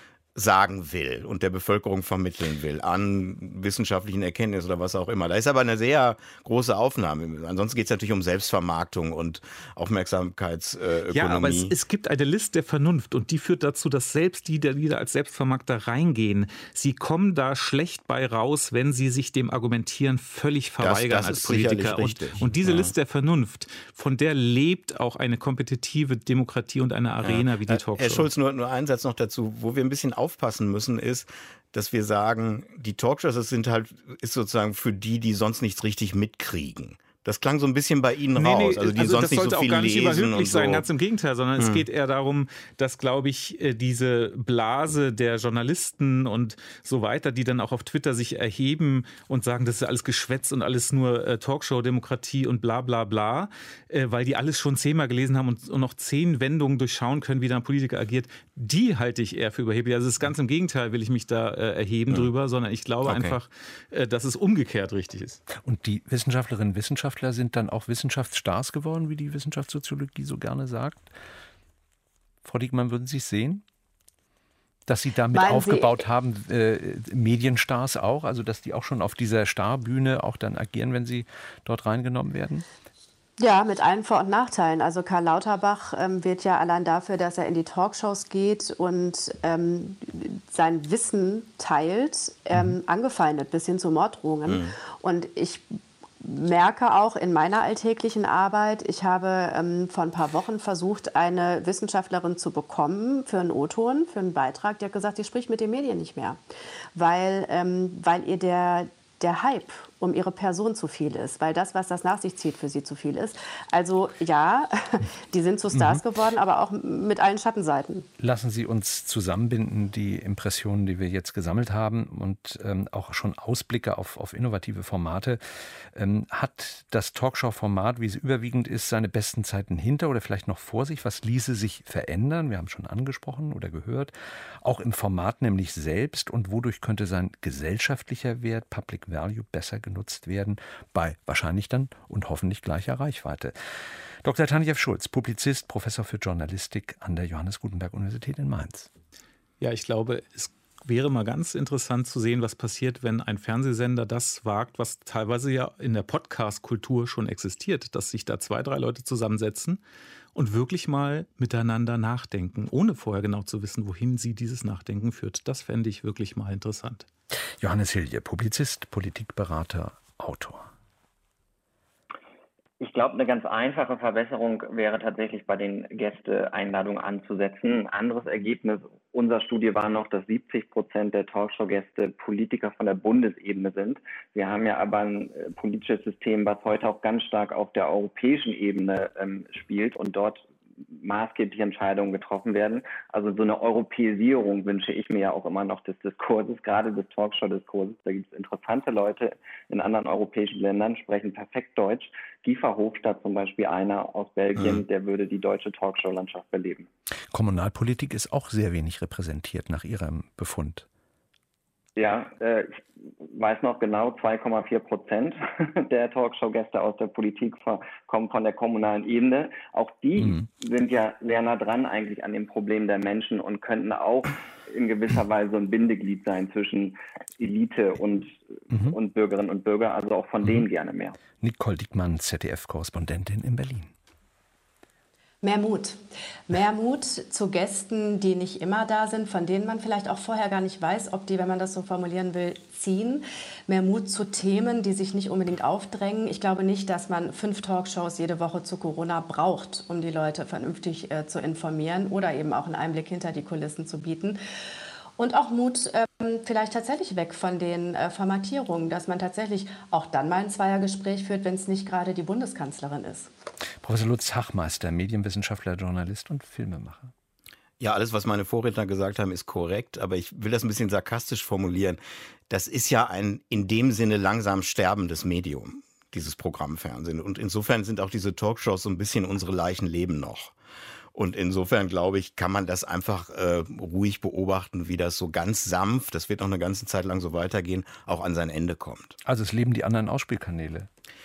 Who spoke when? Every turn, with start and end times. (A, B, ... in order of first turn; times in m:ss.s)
0:00.4-0:11.7 A
0:11.1-0:28.3 B
0:20.8-0:22.9 A
0:27.2-0:40.9 A
0:38.3-1:05.4 B
0:41.6-0:41.8 A
1:03.0-1:03.4 A
1:05.5-1:11.1 C
1:12.4-1:13.6 C
1:14.9-1:22.6 C
1:15.3-1:15.9 D
1:23.4-1:35.6 D
1:34.5-1:34.7 A
1:36.2-1:46.4 D
1:46.9-1:58.1 D
1:58.2-2:23.5 C
2:24.2-2:28.9 C
2:29.6-2:39.8 B
2:40.3-2:47.0 B
2:47.6-2:50.7 C
2:52.8-3:26.9 E
3:24.6-3:24.8 A
3:27.3-3:30.8 C
3:32.0-3:51.1 E
3:51.4-3:53.9 C
3:55.4-4:14.4 D
4:15.2-4:23.3 D
4:23.8-4:27.1 C
4:27.8-4:40.5 A
4:41.1-4:49.1 A
4:49.2-4:50.9 C